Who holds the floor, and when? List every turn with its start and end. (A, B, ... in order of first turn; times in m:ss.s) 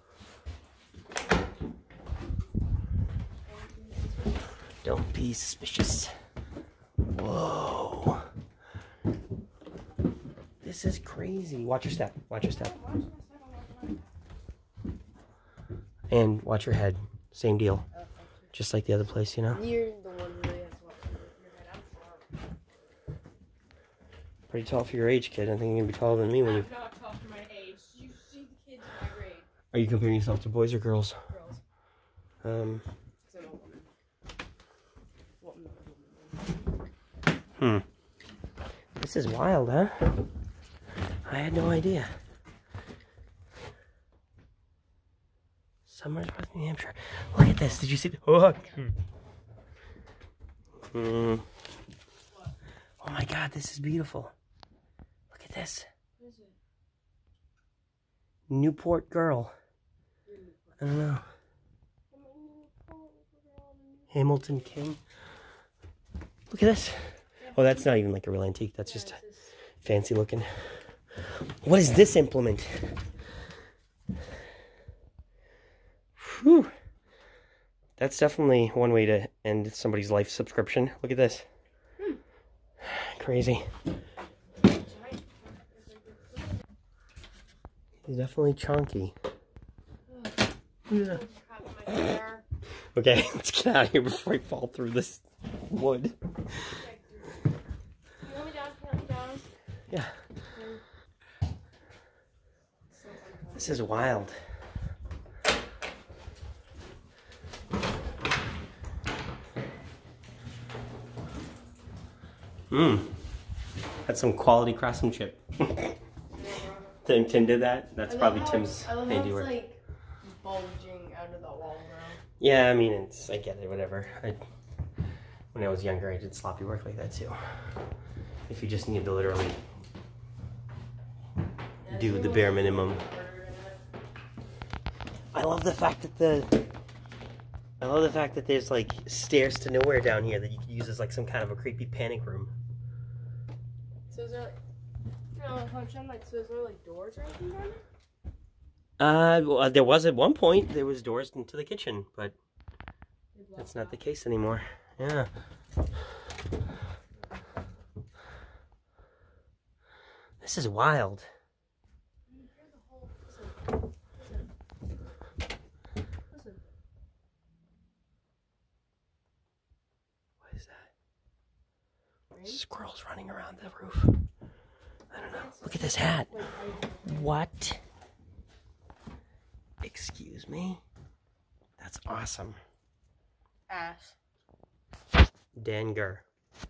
0:03.4-0:04.5 A
0:04.8-0:06.1 B
0:07.0-0:08.3 B
0:10.6-0:12.7 B
0:12.5-0:14.1 A
0:16.1-0:17.8 B
0:17.9-0:18.5 A
0:18.5-0:19.6 B
0:19.5-0:22.3 A
0:24.5-0:26.7 B
0:26.4-0:29.5 A
0:29.7-0:31.2 B
0:31.3-0:31.6 A
0:32.4-0:32.8 B
0:33.3-0:33.9 A
0:35.4-0:36.6 A
0:37.6-0:37.8 B
0:39.0-0:40.2 B
0:41.3-0:42.1 B
0:45.9-0:48.9 B
0:50.9-0:51.5 B
0:53.0-0:54.3 B
0:55.3-0:55.9 B
0:56.2-0:56.6 A
0:58.5-0:59.5 B
1:00.3-1:00.8 A
1:00.8-1:01.3 B
1:02.1-1:04.6 A
1:04.1-1:05.0 B
1:06.5-1:09.2 B
1:07.4-1:07.8 A
1:08.8-1:09.5 A
1:09.8-1:10.5 B
1:11.6-1:13.0 B
1:16.2-1:16.7 B
1:18.0-1:21.5 B
1:22.8-1:23.7 B
1:24.6-1:26.4 A
1:28.0-1:29.2 B
1:30.1-1:32.4 A
1:30.9-1:31.2 B
1:32.9-1:36.2 B
1:36.7-1:37.4 A
1:38.2-1:39.5 A
1:40.5-1:40.8 A
1:42.9-1:44.0 A
1:43.6-1:44.4 B
1:52.7-1:53.2 B
1:54.1-1:55.9 B
1:56.4-1:56.8 A
1:57.0-1:59.6 B
1:58.1-2:02.2 A
2:02.4-2:04.4 B
2:05.5-2:07.4 B
2:08.5-2:09.6 B
2:11.8-2:13.8 A
2:11.9-2:13.0 B
2:15.3-2:16.6 B
2:17.8-2:22.5 B
2:24.1-2:24.6 A
2:25.4-2:27.8 A
2:29.0-2:32.4 B
2:33.3-2:34.0 A
2:33.6-2:35.3 B
2:40.4-2:41.3 B
2:42.3-2:44.5 A
2:46.3-2:46.6 A
2:50.4-2:50.9 B
2:52.3-2:52.6 A
2:52.4-2:54.2 B
2:55.1-2:56.4 B
2:55.2-2:57.4 A
2:57.1-2:57.8 B
2:59.8-3:00.8 B
3:01.8-3:02.6 B
3:03.7-3:04.2 A
3:05.6-3:06.2 B